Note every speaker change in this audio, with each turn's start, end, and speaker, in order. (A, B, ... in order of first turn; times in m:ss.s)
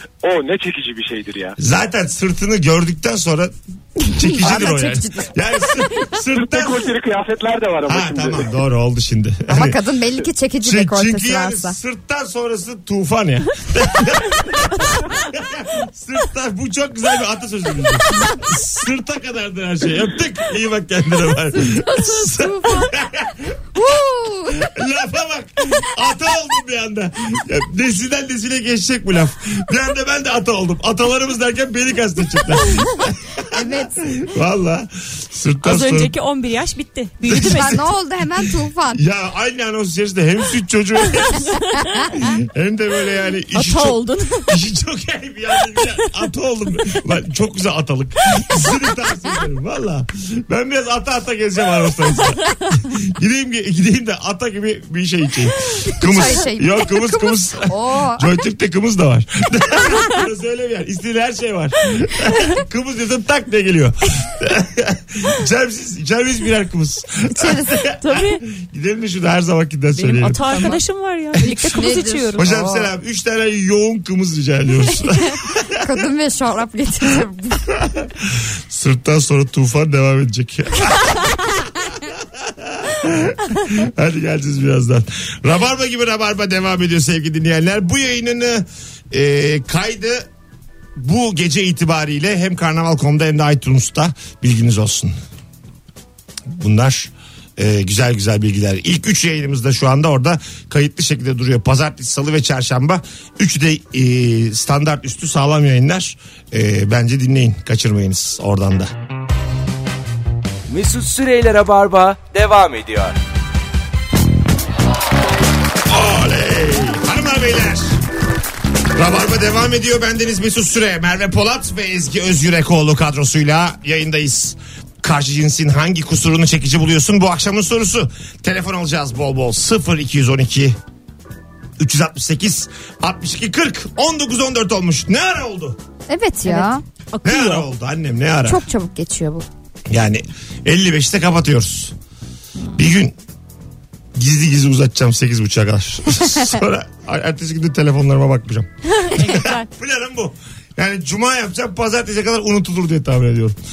0:00.3-0:01.5 A
0:01.6-0:06.9 B
0:04.0-0:05.3 C
0:06.4-0:08.2 A
0:07.8-0:09.8 B
0:09.5-0:11.8 C
0:10.6-0:23.6 B
0:21.9-0:22.8 C
0:23.8-0:24.6 C
0:24.5-0:36.1 B
0:33.5-0:34.0 C
0:35.6-0:37.8 D
0:37.3-0:37.8 B
0:37.4-0:39.0 C
0:38.4-1:10.4 B
0:41.4-0:42.2 D
0:43.5-0:44.6 D
0:56.0-0:58.3 C
1:07.3-1:07.8 C
1:08.0-1:08.4 D
1:10.0-1:12.5 D
1:10.5-1:10.8 C
1:11.4-1:12.9 C
1:12.4-1:15.8 B
1:15.8-1:17.6 C
1:17.8-1:30.3 B
1:31.0-1:35.2 B
1:36.5-1:48.9 B
1:50.7-1:53.2 E
1:55.9-1:57.9 B
1:58.9-2:10.8 B
2:11.8-2:15.8 B
2:16.1-2:16.8 C
2:16.4-2:17.7 D
2:17.2-2:18.6 B
2:18.5-2:19.5 C
2:19.9-2:21.9 B
2:22.7-2:23.2 B
2:24.2-2:33.6 B
2:29.0-2:29.7 D